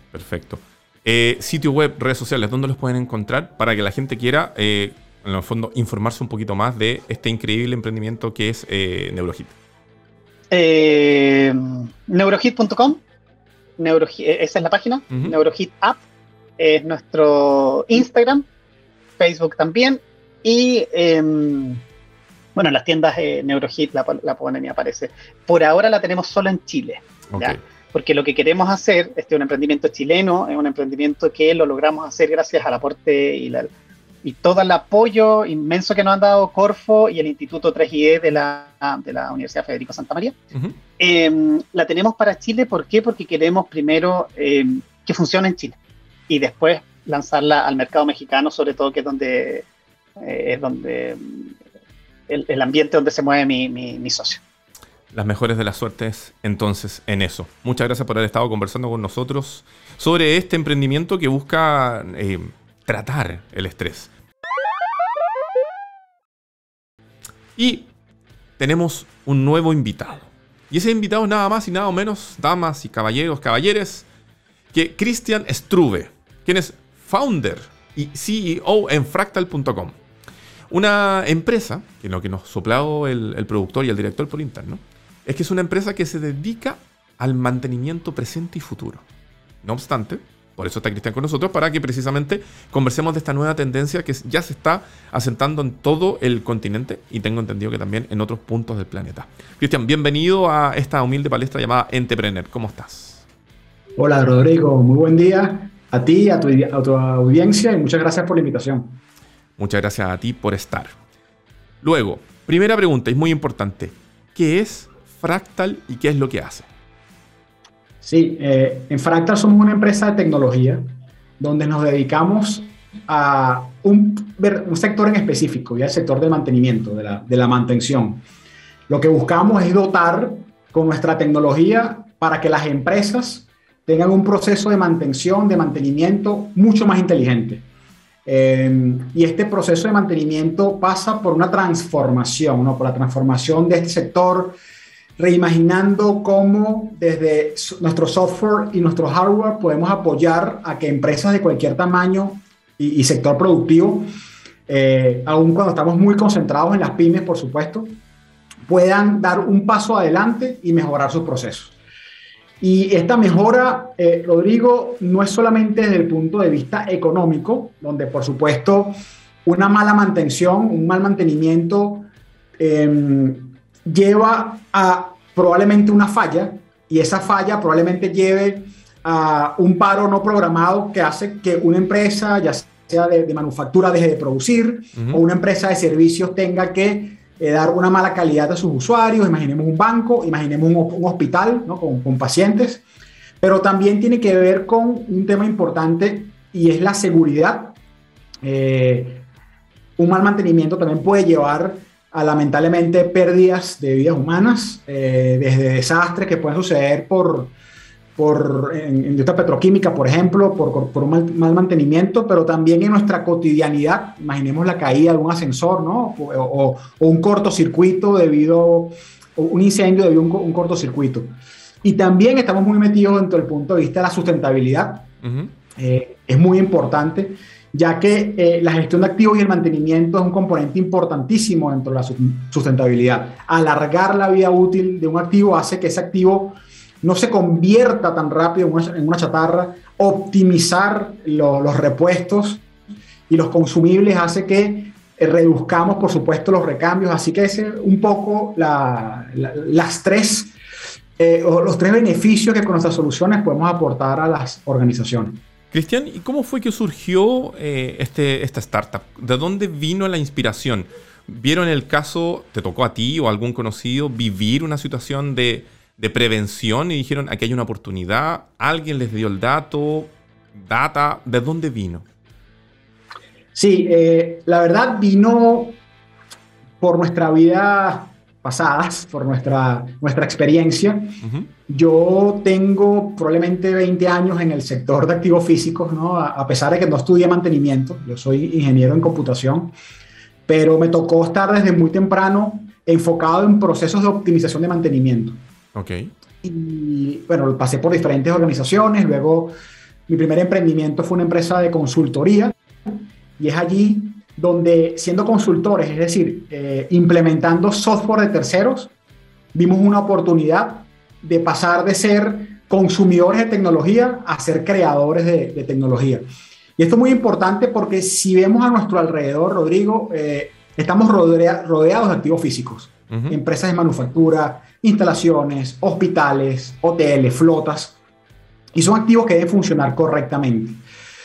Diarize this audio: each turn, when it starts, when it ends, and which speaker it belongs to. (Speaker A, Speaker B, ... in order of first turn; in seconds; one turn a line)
Speaker A: 0.1-9.5
Speaker B: 10.5-13.0
Speaker B: 13.8-16.0
Speaker B: 16.6-18.4
Speaker B: 19.2-21.8
Speaker B: 22.6-33.7
Speaker A: 27.3-27.6
Speaker B: 34.2-40.4
Speaker B: 41.0-45.8
Speaker B: 46.3-49.6
Speaker B: 50.2-51.5
Speaker B: 52.3-54.4
Speaker A: 55.1-64.1
Speaker A: 67.5-67.9
Speaker A: 68.6-74.0
Speaker A: 74.7-80.0
Speaker A: 80.7-89.0
Speaker A: 89.6-103.2
Speaker C: 104.0-109.0
Speaker A: 109.6-110.9
Speaker A: 111.8-116.7
Speaker C: 118.0-120.8
Speaker C: 121.4-128.2
Speaker C: 128.9-137.7
Speaker C: 138.2-144.6
Speaker C: 145.2-154.0
Speaker C: 154.7-158.0
Speaker C: 158.7-161.7
Speaker C: 162.6-168.9
Speaker C: 169.4-172.1
Speaker C: 172.6-192.8
Speaker A: 184.9-185.2
Speaker C: 193.4-197.8
Speaker C: 198.4-199.2
Speaker C: 200.0-207.5
Speaker C: 208.2-225.1
Speaker A: 225.2-225.5
Speaker C: 225.8-242.6
Speaker C: 243.3-250.5
Speaker C: 251.2-255.4
Speaker A: 255.7-272.1
Speaker C: 273.5-275.8
Speaker C: 276.8-289.7
Speaker A: 281.2-281.5
Speaker C: 290.5-295.4
Speaker A: 295.7-296.1
Speaker C: 296.4-299.5
Speaker C: 300.1-308.9
Speaker C: 309.5-327.9
Speaker A: 323.1-323.4
Speaker C: 328.7-330.8